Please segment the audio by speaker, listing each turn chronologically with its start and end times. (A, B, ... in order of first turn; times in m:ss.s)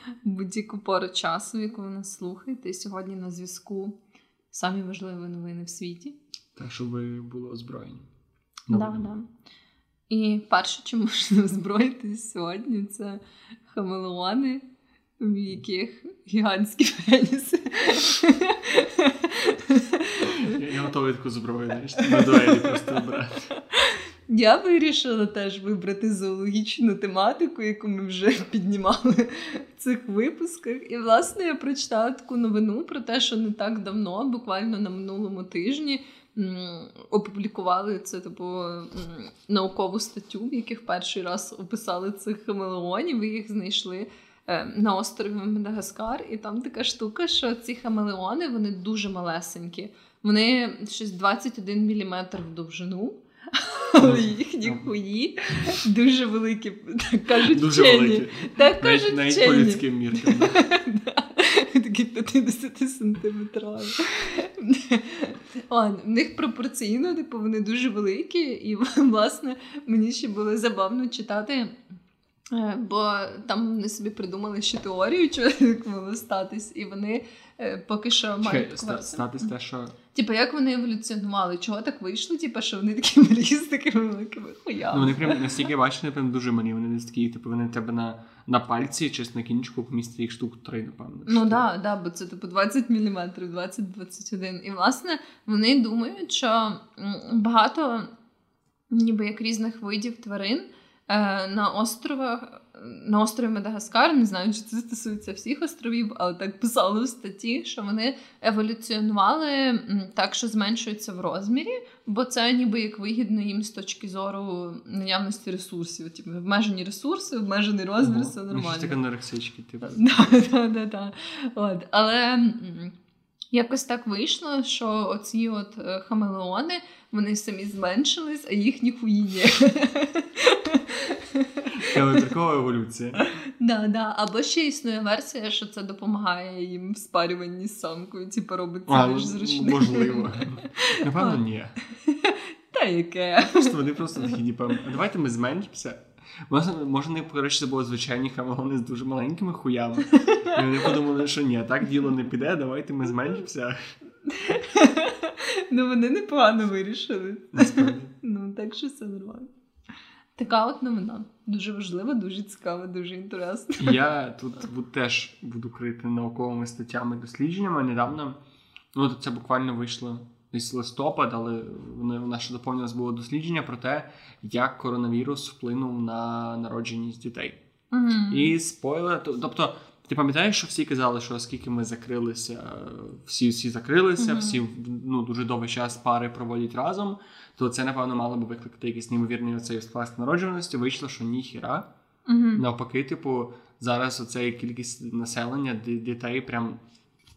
0:00.2-0:04.0 A
0:04.5-0:06.1 A
0:06.6-0:08.1 B
0:08.7-0:09.1 B
0:08.7-0:09.3 A
0:10.1-0:14.6 A
0:15.2-0:20.6 A
0:20.2-0:23.5 B
0:22.1-0:22.9 A
0:23.6-1:11.8 A
0:54.0-0:54.9 B
0:57.5-1:00.6 B
1:12.5-1:19.5 A
1:18.4-1:19.9 B
1:20.1-1:25.6 A
1:24.9-1:31.6 B
1:31.3-1:38.1 A
1:38.9-1:59.0 A
1:58.0-2:00.0 B
1:59.9-2:02.9 A
2:03.5-2:12.2 A
2:11.8-2:13.2 B
2:13.2-2:24.4 A
2:18.9-2:21.8 B
2:23.4-2:33.9 B
2:30.1-2:30.9 A
2:34.2-2:39.5 A
2:37.5-2:38.1 B
2:40.4-2:44.0 A
2:43.8-2:48.4 B
2:48.9-2:57.6 B
2:57.9-2:58.5 A
2:58.3-3:11.9 B
3:04.2-3:04.6 A
3:12.2-3:12.6 A
3:12.6-3:16.8 B